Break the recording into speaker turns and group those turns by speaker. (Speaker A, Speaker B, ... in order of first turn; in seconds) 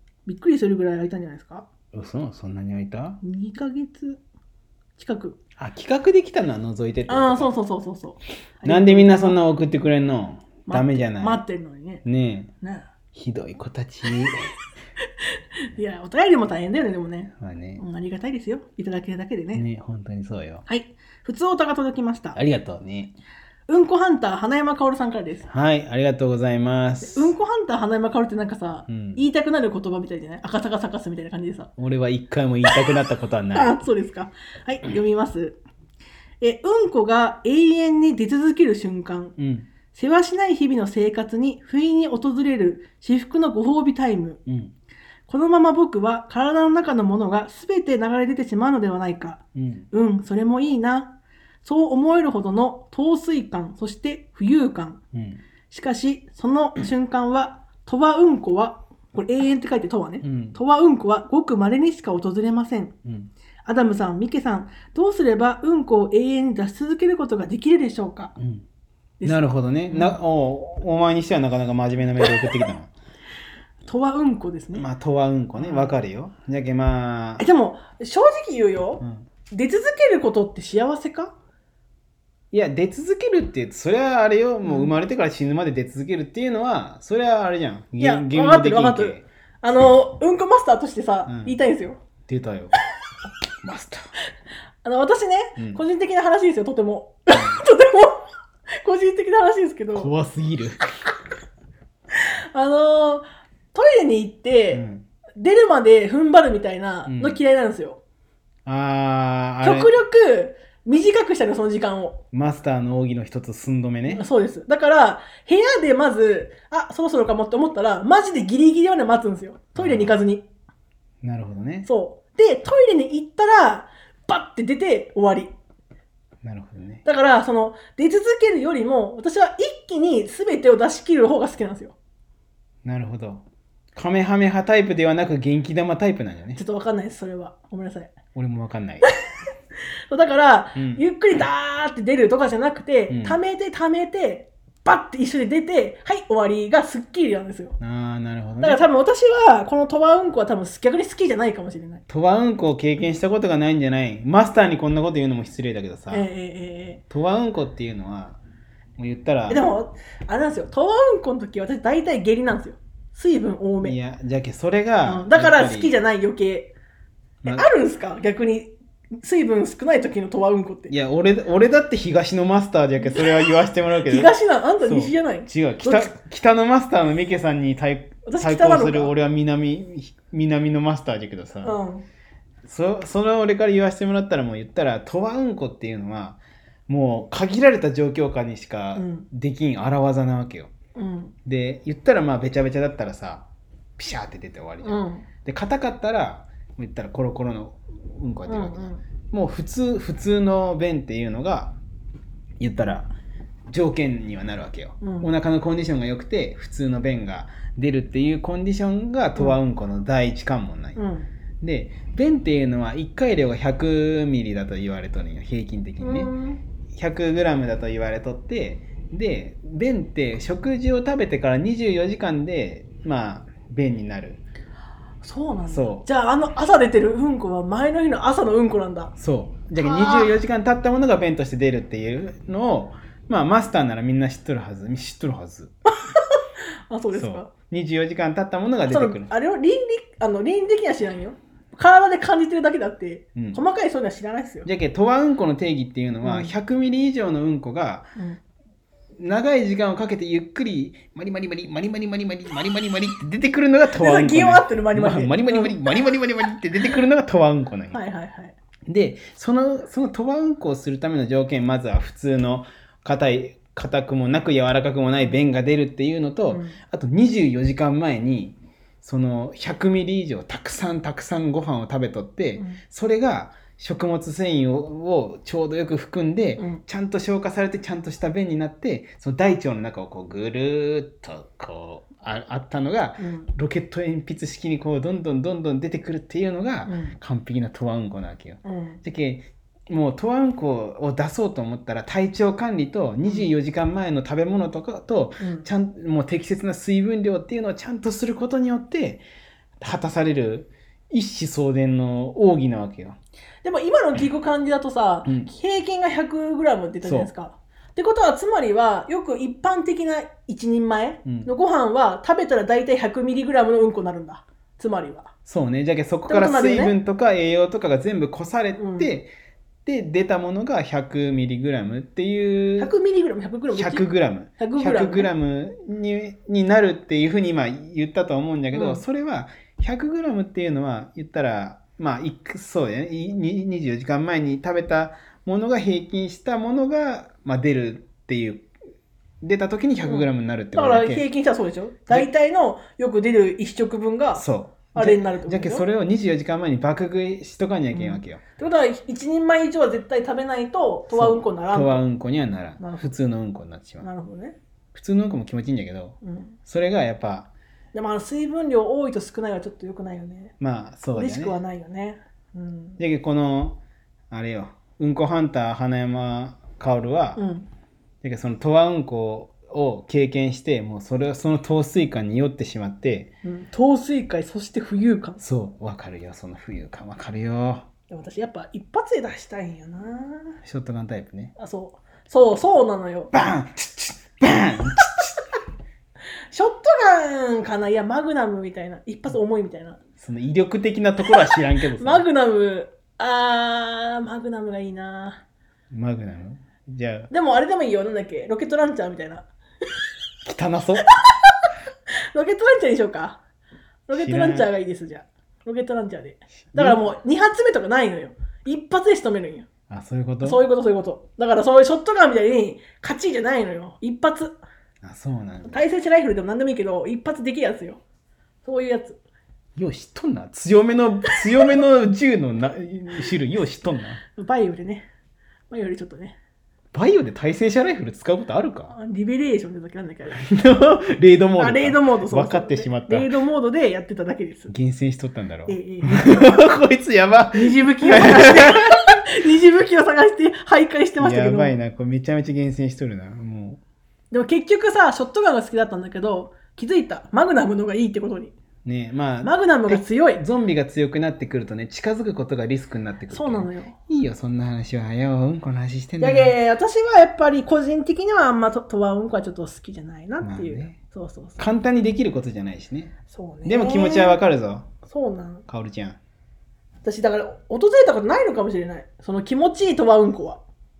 Speaker A: 0.3-1.7, 3.2-4.2, 5.0-5.4, 7.1-9.4, 10.7-12.0, 12.6-12.9, 15.7-19.6, 20.7-22.4, 23.7-25.5, 27.0-31.7, 33.5-35.6, 36.4-39.4, 39.9-44.4, 45.3-55.0, 55.7-62.9, 63.6-68.4, 69.2-70.2, 73.8-74.9, 75.6-76.0, 77.4-81.3, 84.6-84.9, 88.0-92.0, 94.8-98.2, 98.8-100.1, 102.5-104.8, 105.4-108.0, 109.6-112.2, 114.1-120.4, 121.9-125.5, 127.0-131.9, 136.6-138.1, 140.1-147.8, 148.6-152.0, 156.1-157.0, 159.5-164.0, 165.0-166.7, 167.5-170.9, 173.0-173.3, 174.1-176.1, 178.2-179.1, 181.6-182.0, 189.0-189.3, 190.9-191.3, 194.8-195.3, 198.5-199.0, 205.0-205.3, 211.0-211.3, 216.0-216.6, 225.2-229.1, 229.8-230.3, 236.1-237.5, 238.9-244.7, 246.2-246.5, 253.9-255.8, 257.9-258.6, 266.5-266.8, 283.2-283.5, 286.9-287.2, 288.6-289.0, 295.4-295.7, 303.6-315.3, 316.3-317.0, 318.8-319.1, 322.8-324.1, 324.6-325.3, 328.7-329.0, 340.1-344.4, 344.9-345.9, 347.9-352.0, 352.8-353.2, 354.0-354.6, 356.2-356.6, 357.9-360.5, 361.1-363.0, 367.4-367.7, 373.4-375.4, 378.1-380.6, 381.6-383.3, 386.5-390.0, 392.0-395.4, 397.3-399.5, 402.3-403.4, 404.1-409.7, 410.4-414.6, 415.7-418.0, 418.6-419.2, 424.4-425.1, 425.7-426.4, 428.9-430.4, 431.6-434.7, 435.7-436.6, 437.5-441.8, 444.3-448.5, 449.4-450.4, 453.3-454.0, 456.2-461.6, 463.3-464.4, 465.1-465.6, 467.0-470.6
Speaker B: 1.9-3.2, 5.6-7.5, 8.7-11.4, 12.1-12.5, 13.1-14.4, 17.4-17.8, 19.5-20.6, 22.4-23.1, 25.5-27.4, 28.9-29.2, 31.8-33.8, 39.4-39.7, 44.5-44.7, 49.5-49.9, 55.1-55.4, 60.2-60.6, 63.0-63.3, 68.4-68.6, 69.2-72.9, 74.8-77.4, 79.0-79.3, 82.5-89.2, 91.3-91.5, 92.3-92.7, 93.6-94.1, 95.6-95.8, 97.3-97.6, 100.0-100.8, 104.7-105.0, 107.1-107.4, 108.7-109.9, 112.3-114.2, 119.8-120.2, 121.2-121.9, 126.4-127.0, 132.8-133.4, 133.9-136.6, 138.3-139.1, 140.8-141.1, 143.1-143.4, 147.8-148.8, 152.1-156.3, 157.1-158.4, 159.0-159.6, 163.8-165.9, 170.9-181.8, 182.7-190.7, 191.5-193.5, 194.0-201.8, 202.6-203.1, 203.7-211.0, 211.6-216.3, 216.9-224.4, 225.7-226.1, 229.2-235.7, 237.1-239.3, 244.7-248.1, 249.2-258.0, 258.9-299.2, 299.8-303.2, 305.2-305.5, 307.0-307.3, 311.2-311.5, 315.5-319.3, 319.9-322.9, 323.7-338.7, 339.4-341.2, 344.3-348.4, 351.1-354.1, 354.9-357.5, 360.6-361.6, 363.0-363.8, 364.3-367.4, 368.2-373.3, 375.4-377.9, 380.6-381.5, 383.3-385.4, 390.2-392.3, 395.9-397.3, 400.4-401.1, 404.1-404.7, 406.7-407.0, 409.9-410.6, 415.0-415.8, 419.8-424.2, 426.9-428.9, 430.4-433.3, 434.7-438.9, 441.2-443.8, 448.9-456.6, 460.4-461.0, 461.6-463.1, 463.6-464.9, 465.7-466.2